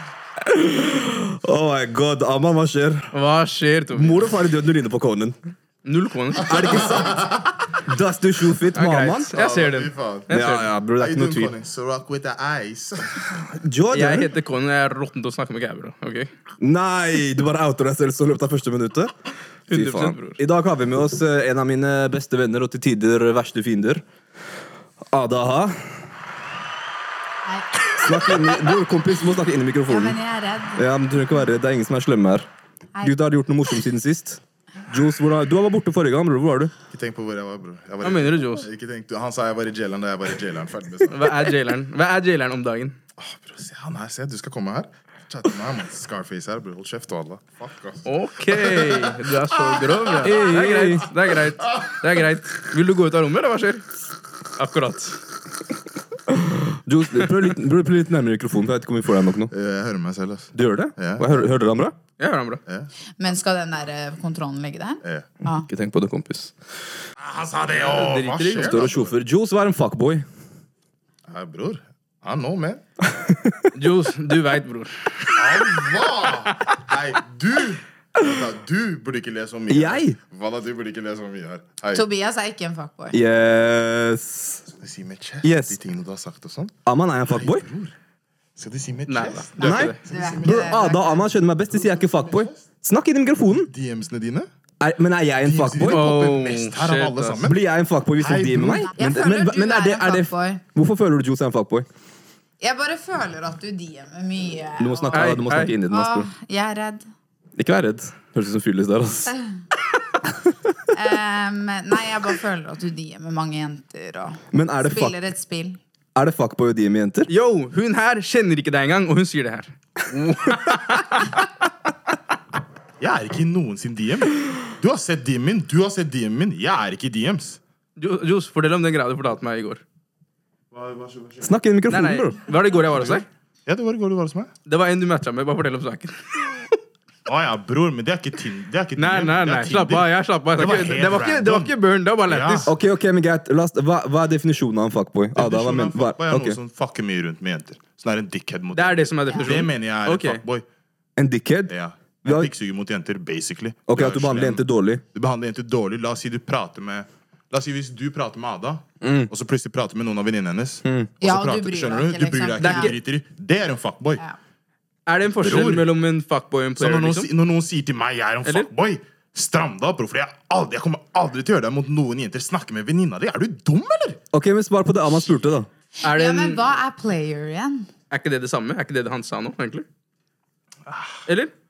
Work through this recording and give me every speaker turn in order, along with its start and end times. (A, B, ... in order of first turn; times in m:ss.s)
0:00.4-0:03.1 A
0:03.1-0:04.2 B
0:03.9-0:05.4 A
0:05.8-0:07.0 B
0:06.4-0:09.3 A
0:06.4-0:07.6 C
0:08.7-0:10.7 B
0:09.3-0:10.3 C
0:10.3-0:11.5 A
0:10.9-0:13.6 C
0:13.6-0:14.3 A
0:13.9-0:16.3 B
0:16.6-0:19.1 A
0:19.7-0:20.4 B
0:19.7-0:24.0 A
0:25.1-0:25.9 A
0:27.4-0:28.8 D
0:28.0-0:30.2 A
0:29.9-0:30.8 D
0:30.8-0:32.5 A
0:33.0-0:36.7 A
0:36.9-0:41.4 C
0:38.0-0:38.7 B
0:41.1-0:43.0 B
0:43.2-0:50.6 C
0:48.1-0:53.8 B
0:50.2-0:51.1 A
0:54.6-0:55.2 B
0:56.3-0:59.5 A
0:59.5-1:01.5 C
1:00.6-1:02.0 A
1:02.2-1:02.6 B
1:03.2-1:05.7 D
1:05.0-1:05.3 C
1:05.7-1:06.5 A
1:07.2-1:09.2 C
1:07.8-1:08.8 B
1:08.6-1:10.3 A
1:11.3-1:12.8 C
1:13.1-1:13.7 A
1:13.7-1:15.8 B
1:15.4-1:22.0 C
1:19.7-1:20.2 A
1:21.9-1:23.2 D
1:23.1-1:24.6 A
1:24.7-1:26.8 C
1:25.4-1:25.8 A
1:26.8-1:27.7 A
1:27.3-1:27.9 C
1:28.6-1:31.1 C
1:29.1-1:30.0 B
1:29.6-1:31.2 D
1:29.6-1:33.7 A
1:31.7-1:32.6 C
1:33.7-1:34.5 C
1:34.8-1:36.1 A
1:35.4-1:37.6 C
1:35.8-1:37.4 B
1:37.4-1:41.9 A
1:38.2-1:38.9 C
1:38.9-1:40.6 D
1:42.6-1:47.1 D
1:44.8-1:46.3 A
1:45.1-1:45.7 B
1:47.6-1:49.3 A
1:49.2-1:49.5 D
1:50.9-1:55.8 D
1:54.5-1:55.2 A
1:56.2-1:57.3 A
1:57.3-2:01.4 B
2:03.0-2:07.6 C
2:08.0-2:09.8 B
2:10.7-2:11.6 C
2:11.4-2:12.4 A
2:11.9-2:13.3 B
2:12.9-2:14.5 C
2:14.7-2:16.8 B
2:17.3-2:21.7 C
2:19.0-2:22.7 B
2:22.3-2:22.7 C
2:22.7-2:26.6 A
2:25.4-2:30.6 C
2:28.7-2:30.4 B
2:29.3-2:29.6 D
2:31.2-2:31.7 A
2:31.7-2:44.2 C
2:32.3-2:32.5 A
2:33.9-2:35.0 A
2:39.0-2:39.3 A
2:40.8-2:41.1 A
2:41.2-2:42.9 D
2:42.6-2:43.0 B
2:45.1-2:47.3 B
2:45.4-2:45.9 C
2:46.8-2:54.2 C
2:48.4-2:48.7 B
2:54.3-2:55.7 A
2:56.0-2:57.9 D
2:56.0-2:56.6 B
2:58.1-2:59.9 B
3:00.9-3:01.2 C
3:01.3-3:01.5 B